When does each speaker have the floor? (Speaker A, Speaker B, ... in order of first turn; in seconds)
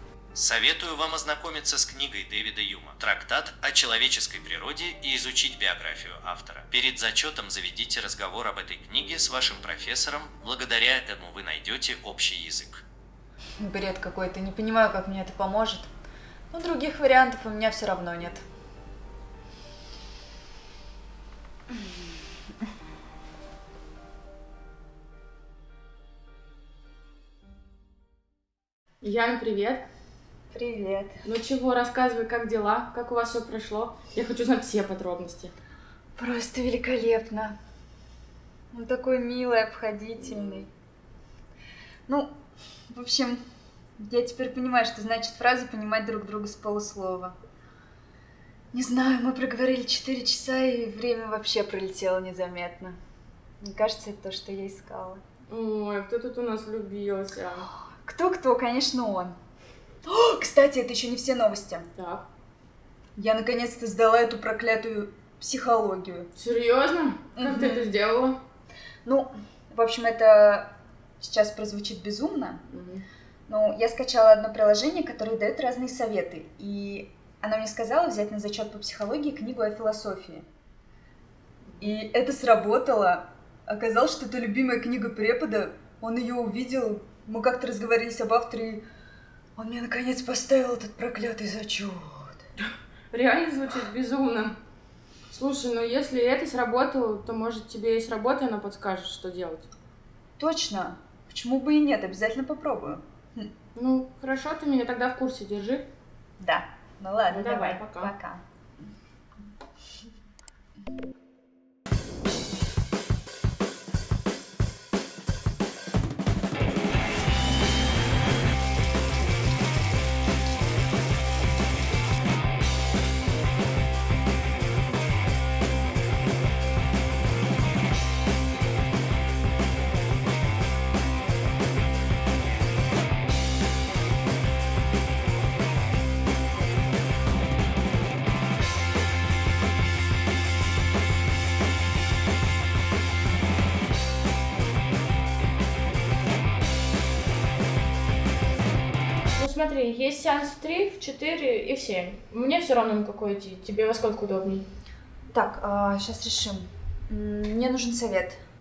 Speaker A: 0.3-12.8
Speaker B: 13.6-15.9, 16.5-18.4, 30.5-31.2, 36.2-37.5, 38.7-40.7, 42.1-42.4, 42.9-43.4, 44.0-47.4, 48.7-53.0, 53.6-55.2, 58.0-59.4, 60.0-61.9, 63.2-66.3, 67.4-67.9, 69.0-72.6, 73.5-80.5, 81.8-88.8, 89.6-92.4, 100.4-103.5, 106.4-108.4, 155.3-158.4
Speaker C: 29.0-29.9, 31.2-35.5, 55.5-57.7, 62.0-62.3, 66.3-68.4, 72.7-73.0, 81.7-81.9, 93.1-94.6, 95.3-99.7, 103.8-105.9, 107.3-108.1, 149.3-154.7